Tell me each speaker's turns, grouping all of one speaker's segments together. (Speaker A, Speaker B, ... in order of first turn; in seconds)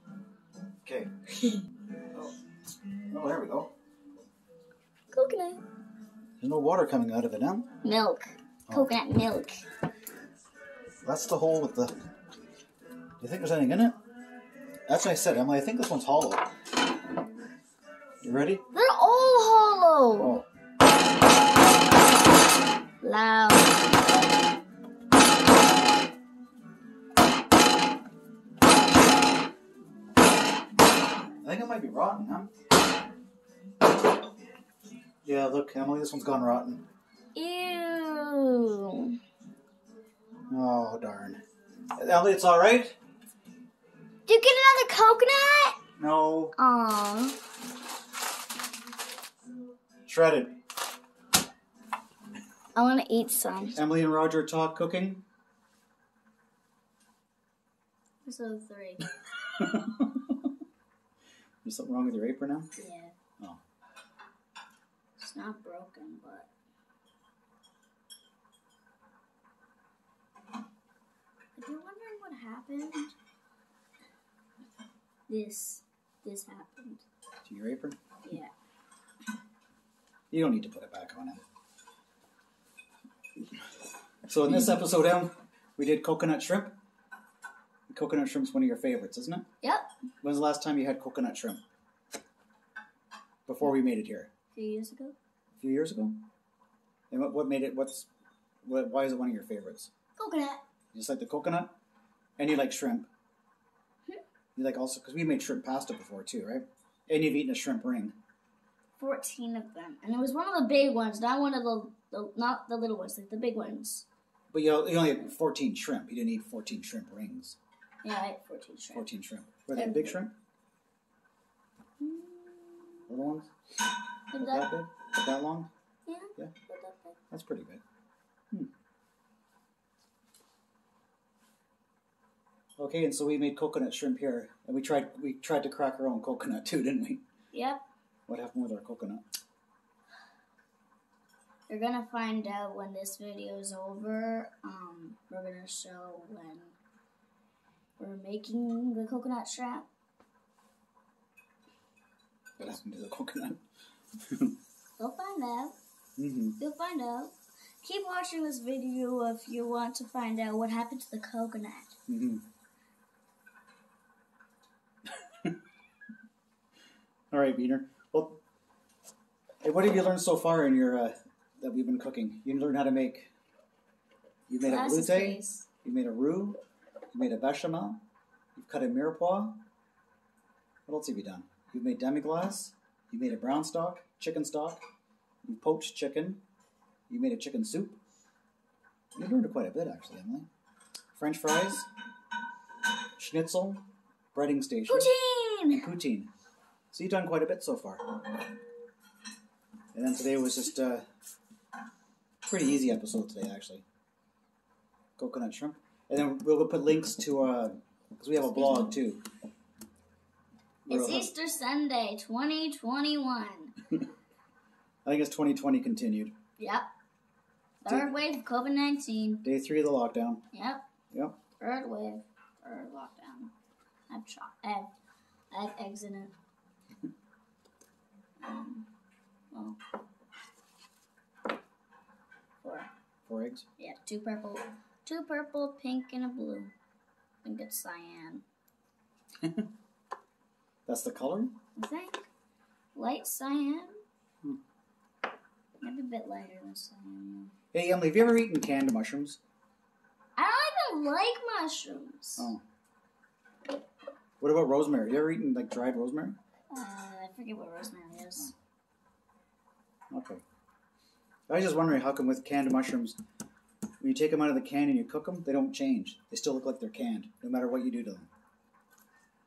Speaker A: 0.8-1.1, 3.1-3.7, 6.4-7.7, 11.0-11.9, 13.2-14.0, 14.9-16.5, 18.2-18.6, 20.2-20.4, 31.4-32.5, 35.2-36.8, 40.5-41.4, 42.0-43.0, 46.0-46.5, 50.1-50.5, 53.7-55.2, 59.7-60.4, 61.6-62.7, 77.5-78.0, 80.3-81.4, 84.3-86.7, 87.9-89.4, 90.2-91.6, 93.5-94.3, 95.6-96.2, 97.1-98.1, 98.6-99.9, 100.9-101.7, 102.4-103.1, 104.5-108.2, 114.5-117.6, 118.9-120.3, 123.1-123.5, 124.3-125.7, 127.3-127.8, 132.8-137.2, 138.3-139.2, 152.6-153.6, 156.2-156.6, 162.1-162.4, 167.3-168.4, 169.6-173.3, 174.5-176.6, 177.1-178.0, 178.5-179.6, 180.9-184.8, 185.4-186.4, 187.1-188.0, 189.1-190.5, 191.1-191.9, 193.2-193.8, 194.3-195.1, 195.7-196.3, 196.9-198.0, 199.9-201.0, 202.4-203.8, 205.2-209.2, 210.9-211.3, 215.0-216.3, 217.8-218.1, 219.4-220.4, 233.3-233.7, 240.8-241.5, 247.7-249.4, 254.4-256.4, 260.1-260.4, 261.5-263.1, 264.0-268.3
Speaker B: 5.1-5.6, 7.8-9.6, 18.7-20.4, 23.0-23.8, 37.3-39.2, 44.3-45.8, 46.5-47.4, 52.7-53.8, 58.2-59.0, 62.8-63.1, 65.2-66.5, 71.5-73.1, 75.3-77.0, 78.2-78.5, 89.6-89.9, 94.5-95.1, 100.2-100.6, 109.0-114.0, 118.0-119.0, 119.7-120.2, 122.0-123.0, 124.3-124.7, 126.0-127.2, 137.5-137.8, 141.7-146.7, 148.0-149.9, 155.0-155.7, 156.6-161.9, 174.6-175.7, 194.9-195.9, 208.6-208.9, 210.9-213.7, 216.6-216.9, 217.8-219.4, 220.5-220.8, 221.6-223.5, 224.1-224.9, 225.5-226.3, 228.4-228.9, 229.5-229.8, 232.6-232.9, 233.8-236.7, 237.4-238.4, 241.8-242.2, 242.9-244.0, 245.8-247.5, 250.3-252.5, 256.7-258.5